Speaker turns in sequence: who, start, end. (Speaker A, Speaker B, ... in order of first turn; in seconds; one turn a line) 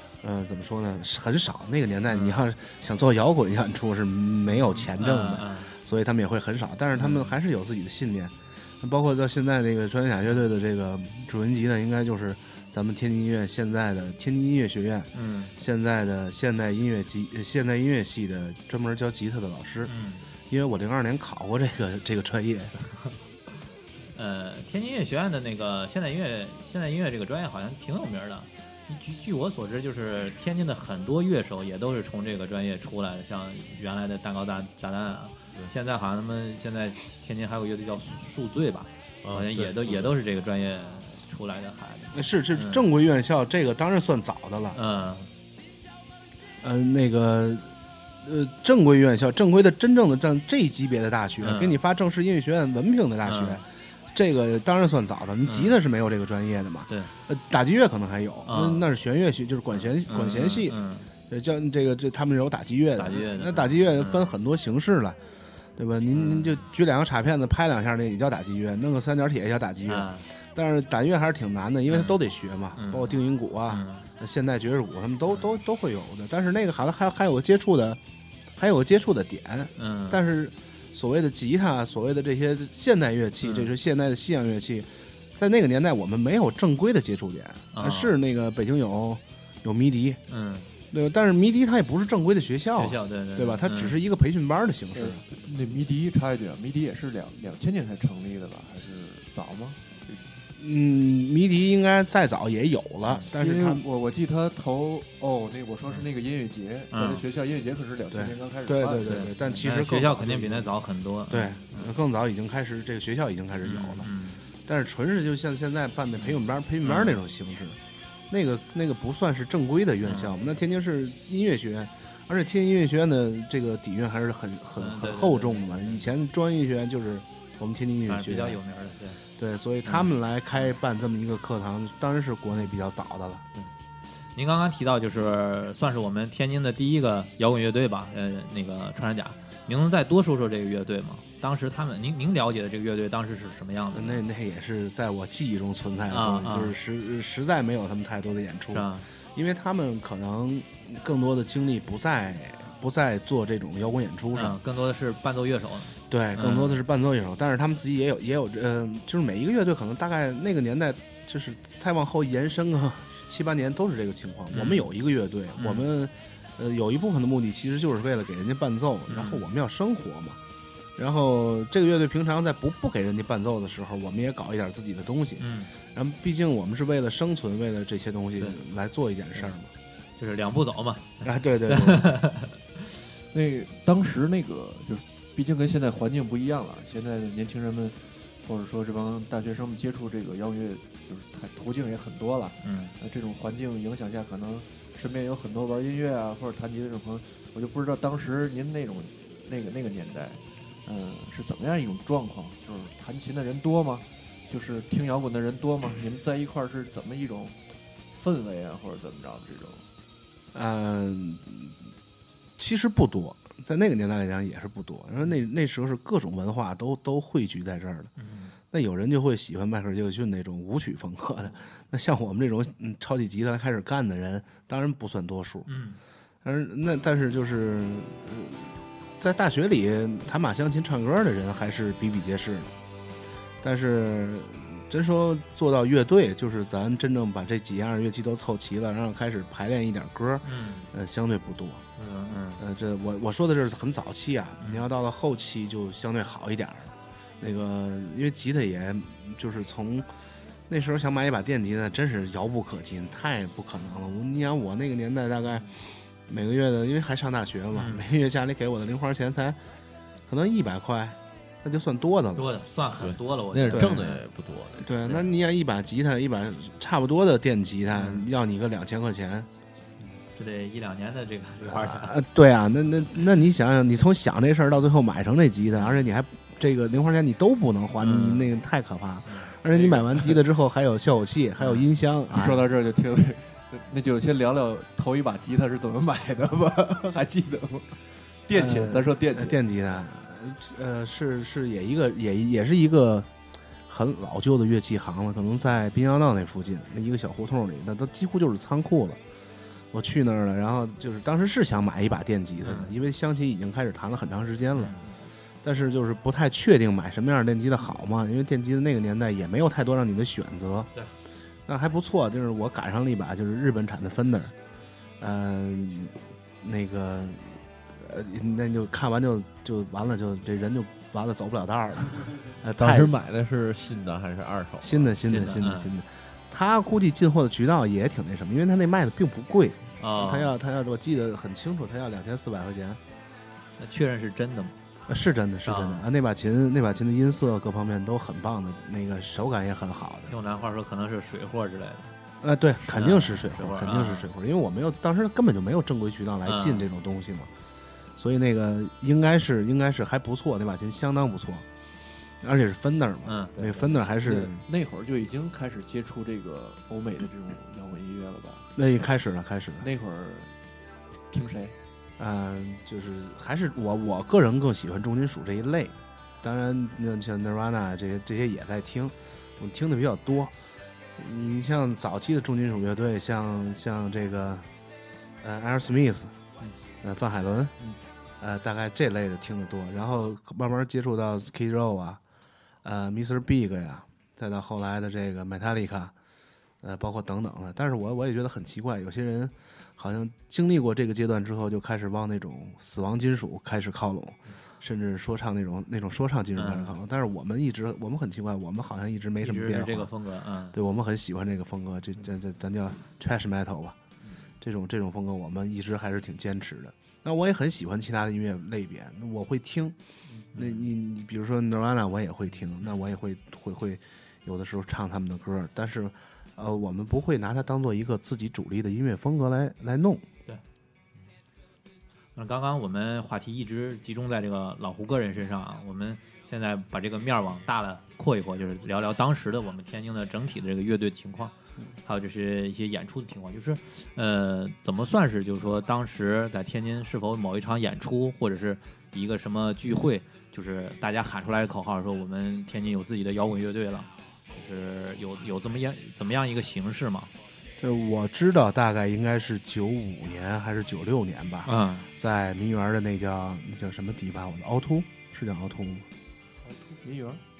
Speaker A: 0.2-19.9
Speaker B: 2.1-2.4
Speaker B: 4.5-5.7
Speaker B: 6.9-7.3
Speaker B: 15.1-15.5
Speaker B: 19.8-20.2
Speaker A: 20.5-22.7
Speaker B: 24.1-42.9
Speaker C: 39.2-40.1
Speaker A: 42.1-44.8
Speaker B: 44.7-45.3
Speaker A: 46.6-47.7
Speaker A: 48.2-60.8
Speaker B: 51.4-51.8
Speaker B: 53.2-53.6
Speaker B: 55.4-55.8
Speaker B: 58.5-58.8
Speaker B: 59.7-61.1
Speaker A: 61.3-65.2
Speaker B: 63.0-64.3
Speaker A: 65.8-78.0
Speaker B: 66.1-66.6
Speaker B: 69.9-70.2
Speaker B: 71.9-72.2
Speaker B: 72.8-74.0
Speaker A: 78.6-90.2
Speaker B: 79.8-80.2
Speaker B: 83.4-83.7
Speaker B: 87.7-88.1
Speaker B: 90.3-90.7
Speaker A: 90.9-95.2
Speaker B: 92.8-94.0
Speaker D: 94.9-100.2
Speaker A: 100.6-103.8
Speaker D: 103.4-109.2
Speaker B: 106.9-107.2
Speaker A: 108.1-110.7
Speaker B: 109.0-111.9
Speaker A: 111.3-114.1
Speaker B: 113.6-114.4
Speaker A: 114.6-117.8
Speaker B: 116.2-117.2
Speaker A: 118.3-128.6
Speaker B: 120.0-120.4
Speaker B: 124.8-126.1
Speaker B: 128.1-129.2
Speaker A: 129.4-133.4
Speaker B: 129.8-130.1
Speaker B: 134.3-144.2
Speaker A: 143.9-154.6
Speaker B: 146.1-146.7
Speaker B: 148.7-149.1
Speaker B: 154.3-156.8
Speaker A: 156.1-170.4
Speaker B: 164.5-164.9
Speaker B: 165.6-165.9
Speaker B: 169.1-169.4
Speaker A: 171.0-179.7
Speaker B: 175.4-175.7
Speaker B: 180.2-182.5
Speaker A: 181.2-182.1
Speaker D: 183.3-207.6
Speaker B: 192.6-192.9
Speaker D: 208.1-209.8
Speaker A: 210.5-211.7
Speaker A: 212.6-218.1
Speaker B: 218.2-218.5
Speaker A: 218.7-225.7
Speaker B: 225.7-226.0
Speaker A: 226.4-232.7
Speaker A: 233.6-241.8
Speaker B: 240.4-240.9
Speaker B: 242.0-242.6
Speaker A: 242.6-250.1
Speaker B: 244.6-244.8
Speaker A: 250.7-259.6
Speaker B: 257.7-258.0
Speaker A: 260.3-262.5
Speaker B: 262.4-264.2
Speaker C: 263.0-265.0
Speaker A: 263.7-264.2
Speaker A: 264.8-269.5
Speaker B: 267.9-268.3
Speaker B: 270.3-272.1
Speaker A: 271.6-282.6
Speaker B: 278.0-278.5
Speaker B: 279.3-279.5
Speaker D: 279.7-280.4
Speaker B: 281.6-281.9
Speaker D: 282.3-289.6
Speaker A: 288.5-293.3
Speaker A: 293.9-299.2
Speaker A: 299.9-304.9
Speaker B: 302.6-302.9
Speaker B: 304.8-305.1
Speaker A: 305.6-310.9
Speaker A: 311.7-314.5
Speaker A: 315.2-323.1
Speaker C: 322.8-325.1
Speaker A: 324.8-333.0
Speaker B: 325.2-325.9
Speaker B: 330.0-330.5
Speaker B: 333.8-334.7
Speaker A: 335.1-340.3
Speaker B: 335.6-336.1
Speaker B: 340.3-342.1
Speaker A: 342.4-347.5
Speaker B: 342.8-344.3
Speaker B: 346.4-346.9
Speaker A: 348.2-351.6
Speaker A: 352.4-354.6
Speaker B: 353.2-354.0
Speaker D: 354.2-358.8
Speaker A: 358.8-359.9
Speaker D: 359.8-360.5
Speaker D: 361.3-361.7
Speaker A: 362.2-370.5
Speaker A: 371.2-374.7
Speaker A: 375.4-376.3
Speaker A: 377.0-377.7
Speaker A: 378.4-382.2
Speaker A: 382.8-386.1
Speaker A: 386.8-400.1
Speaker B: 396.6-397.0
Speaker B: 399.4-400.8
Speaker A: 400.7-404.0
Speaker A: 404.6-409.9
Speaker A: 410.5-420.2
Speaker B: 410.6-410.8
Speaker B: 422.4-431.5
Speaker B: 432.1-447.3
Speaker A: 447.8-456.0
Speaker B: 451.6-452.1
Speaker D: 456.6-457.4